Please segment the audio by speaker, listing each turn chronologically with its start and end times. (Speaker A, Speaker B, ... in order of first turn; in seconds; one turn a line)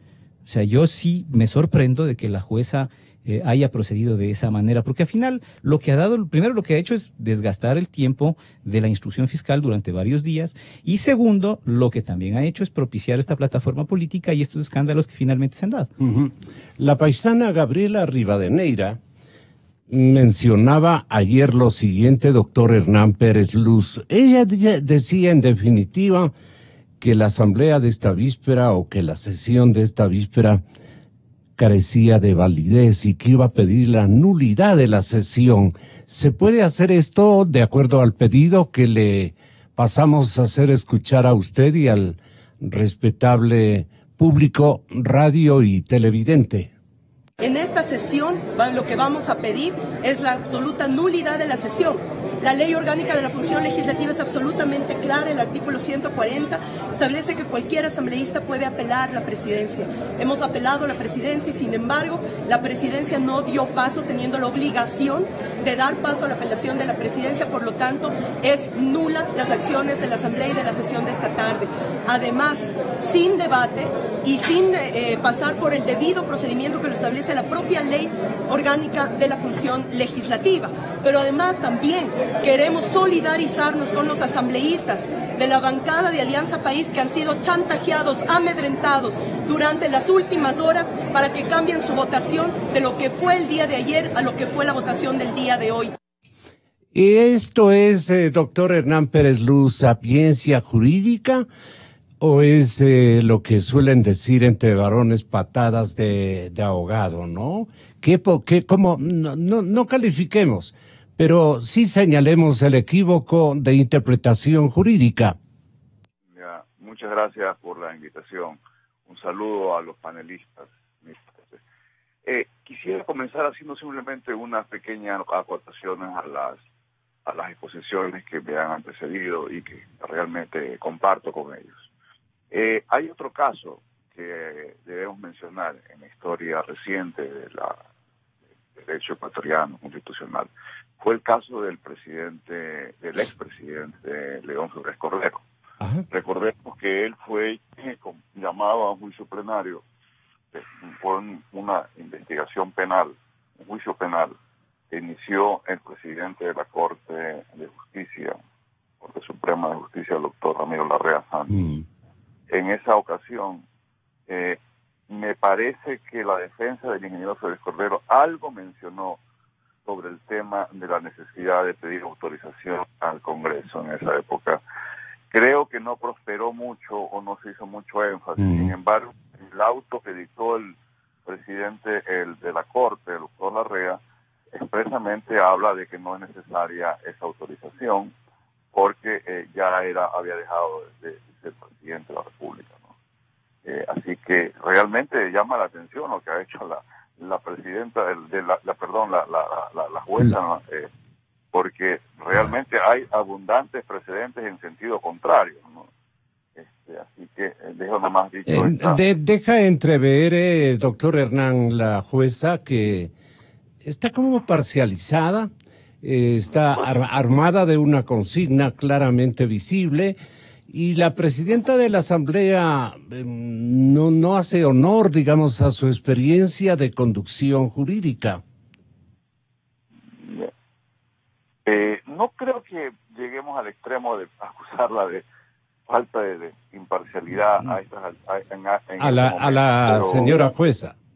Speaker A: 0.5-15.9
Speaker B: 16.0-19.0
Speaker B: 19.9-26.3
Speaker B: 27.0-30.6
Speaker B: 31.6-46.7
Speaker C: 47.4-96.0
Speaker B: 96.9-101.5
Speaker B: 102.2-115.4
Speaker D: 116.3-121.6
Speaker D: 122.2-126.6
Speaker D: 127.2-131.8
Speaker D: 132.5-137.8
Speaker D: 138.8-145.4
Speaker B: 145.8-146.1
Speaker D: 146.1-149.8
Speaker D: 150.5-154.3
Speaker D: 154.9-158.4
Speaker D: 159.0-161.8
Speaker B: 161.5-161.8
Speaker D: 162.5-163.7
Speaker D: 164.3-169.2
Speaker D: 169.8-174.6
Speaker D: 175.3-184.0
Speaker B: 178.4-178.7
Speaker D: 184.5-188.1
Speaker D: 188.7-192.9
Speaker D: 193.7-200.9
Speaker D: 201.5-205.9
Speaker D: 206.6-209.0
Speaker B: 208.5-213.1
Speaker B: 213.8-215.5
Speaker B: 216.0-220.2
Speaker B: 220.7-228.4
Speaker D: 230.2-230.5
Speaker D: 231.7-235.2
Speaker D: 235.9-240.5
Speaker B: 239.0-240.9